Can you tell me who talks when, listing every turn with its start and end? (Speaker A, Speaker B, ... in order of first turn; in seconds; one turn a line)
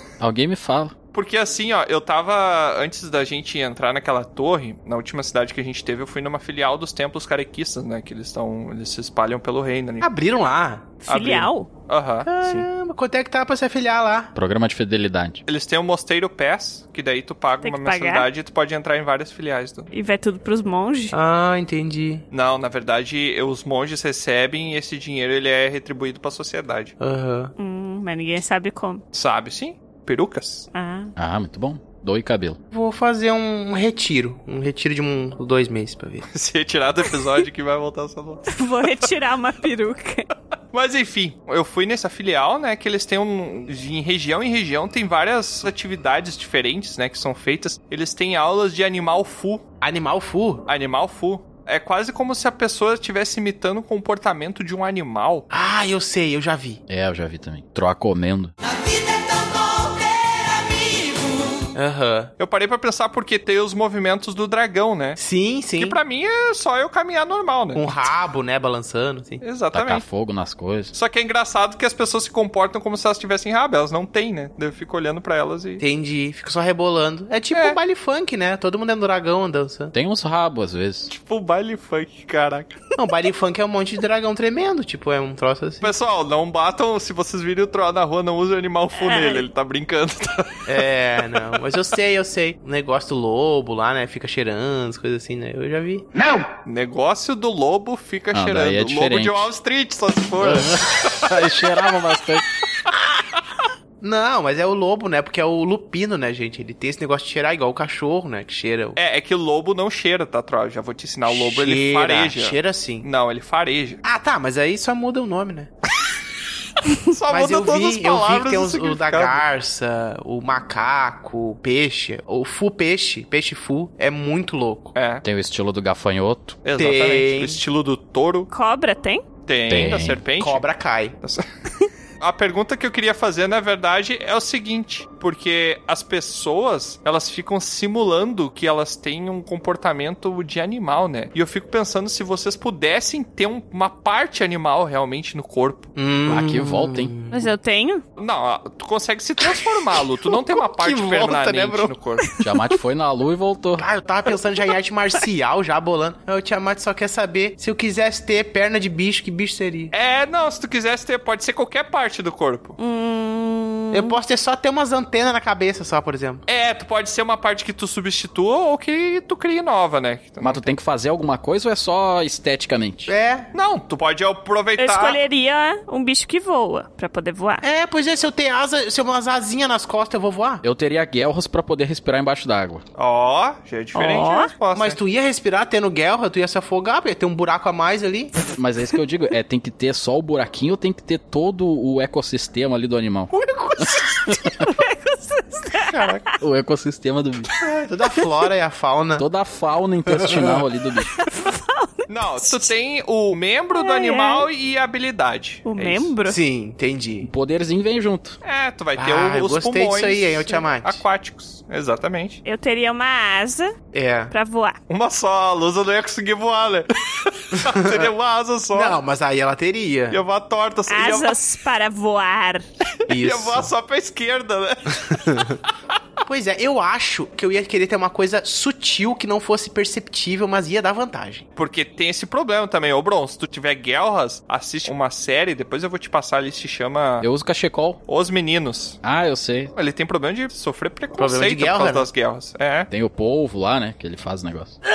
Speaker A: 0.2-0.9
Speaker B: 1.1-10.1
Speaker C: 10.0-11.1
Speaker D: 11.1-11.7
Speaker B: 11.1-12.7
Speaker C: 12.2-14.3
Speaker A: 14.3-15.4
Speaker B: 15.4-19.9
Speaker D: 17.6-18.3
Speaker D: 19.9-21.1
Speaker C: 21.1-22.2
Speaker B: 22.3-26.9
Speaker C: 27.0-27.5
Speaker D: 27.6-29.0
Speaker B: 29.1-30.7
Speaker D: 30.7-31.1
Speaker A: 31.1-32.6
Speaker C: 32.7-36.2
Speaker B: 36.3-38.5
Speaker D: 38.5-40.3
Speaker B: 40.7-49.6
Speaker C: 49.8-50.6
Speaker B: 50.7-55.5
Speaker C: 55.5-56.8
Speaker A: 56.9-58.5
Speaker C: 61.7-62.3
Speaker B: 62.4-65.2
Speaker C: 65.2-66.0
Speaker B: 65.8-67.9
Speaker C: 67.7-69.4
Speaker B: 69.4-70.0
Speaker A: 69.7-70.9
Speaker B: 70.9-75.8
Speaker C: 75.8-79.9
Speaker B: 77.5-77.8
Speaker A: 79.9-81.1
Speaker B: 81.1-82.7
Speaker C: 83.0-85.9
Speaker B: 85.8-91.5
Speaker D: 89.0-89.4
Speaker C: 90.7-96.1
Speaker B: 96.6-101.2
Speaker A: 98.3-99.5
Speaker A: 100.4-102.4
Speaker C: 104.0-109.0
Speaker B: 109.0-114.0
Speaker C: 111.2-113.0
Speaker C: 114.0-115.7
Speaker B: 117.0-119.4
Speaker C: 117.3-124.9
Speaker B: 124.9-125.2
Speaker A: 125.2-126.6
Speaker B: 126.6-128.5
Speaker C: 126.8-127.6
Speaker D: 128.5-129.2
Speaker B: 129.4-130.6
Speaker A: 129.7-130.2
Speaker C: 130.4-131.2
Speaker B: 132.2-145.9
Speaker C: 145.9-147.5
Speaker A: 146.3-147.1
Speaker D: 147.3-148.0
Speaker B: 148.2-152.2
Speaker C: 150.5-151.9
Speaker A: 152.4-153.8
Speaker C: 153.8-159.9
Speaker B: 159.9-162.8
Speaker D: 162.8-164.1
Speaker C: 163.9-166.4
Speaker B: 166.5-170.7
Speaker A: 170.4-173.1
Speaker C: 173.1-173.5
Speaker B: 173.5-175.2
Speaker D: 174.8-177.6
Speaker C: 177.6-180.6
Speaker A: 180.6-182.8
Speaker B: 182.9-185.0
Speaker D: 183.9-184.5
Speaker C: 184.7-188.3
Speaker A: 188.5-194.6
Speaker C: 193.3-194.3
Speaker D: 194.6-195.9
Speaker A: 196.4-197.5
Speaker C: 197.6-199.2
Speaker A: 199.2-201.1
Speaker C: 200.1-200.6
Speaker D: 201.2-202.7
Speaker B: 202.1-206.1
Speaker D: 203.8-204.5
Speaker D: 205.6-206.4
Speaker C: 206.2-207.3
Speaker A: 207.2-208.4
Speaker B: 208.4-212.4
Speaker C: 209.0-211.0
Speaker D: 212.4-213.7
Speaker C: 213.9-214.3
Speaker D: 214.3-214.8
Speaker B: 214.9-219.0
Speaker C: 217.5-218.1
Speaker C: 218.7-220.2
Speaker B: 220.1-221.4
Speaker D: 220.9-222.6
Speaker C: 223.1-223.7
Speaker B: 223.1-225.2
Speaker C: 225.1-225.6
Speaker C: 226.2-231.4
Speaker B: 231.6-237.3
Speaker A: 237.2-238.0
Speaker B: 238.1-239.0
Speaker A: 239.0-239.7
Speaker B: 239.7-242.9
Speaker C: 241.2-242.1
Speaker A: 242.9-244.8